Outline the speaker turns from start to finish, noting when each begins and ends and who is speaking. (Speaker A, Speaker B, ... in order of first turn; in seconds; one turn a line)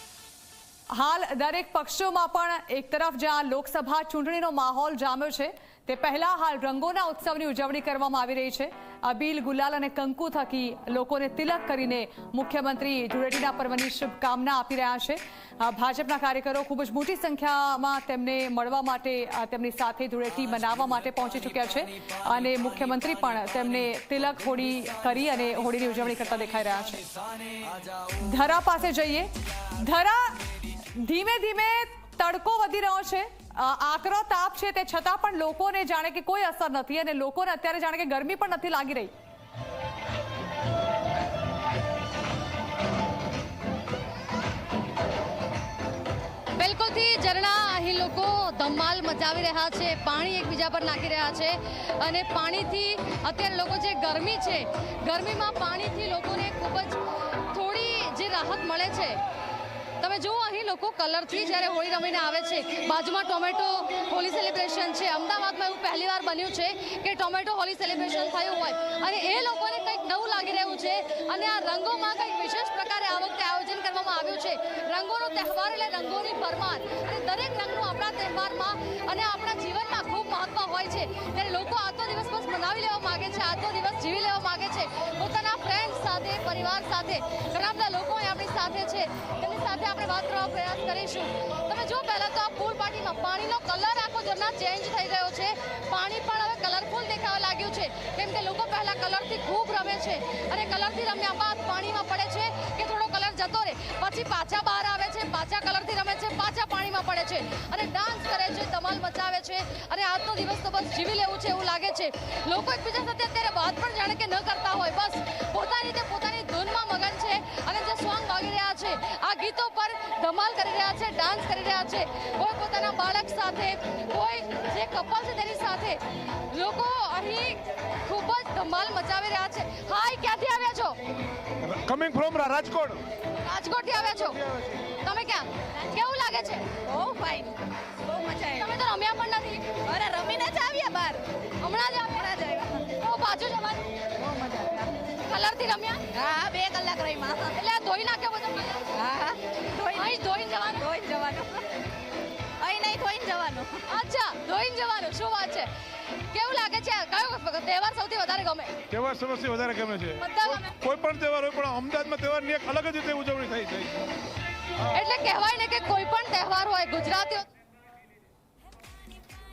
Speaker A: 0.9-27.1
Speaker A: 28.1-39.1
Speaker B: 46.6-59.2
Speaker B: 60.0-131.0
Speaker C: 131.6-133.0
Speaker B: 133.4-134.4
Speaker B: 135.0-136.8
Speaker D: 136.8-138.7
Speaker B: 138.5-139.8
Speaker D: 139.8-141.3
Speaker B: 141.6-146.1
Speaker D: 142.3-142.8
Speaker D: 146.1-147.5
Speaker B: 147.5-149.1
Speaker D: 148.9-150.2
Speaker B: 149.9-150.9
Speaker D: 150.8-151.7
Speaker D: 152.6-153.8
Speaker B: 153.9-158.7
Speaker C: 158.9-164.1
Speaker B: 160.2-160.8
Speaker B: 164.9-167.5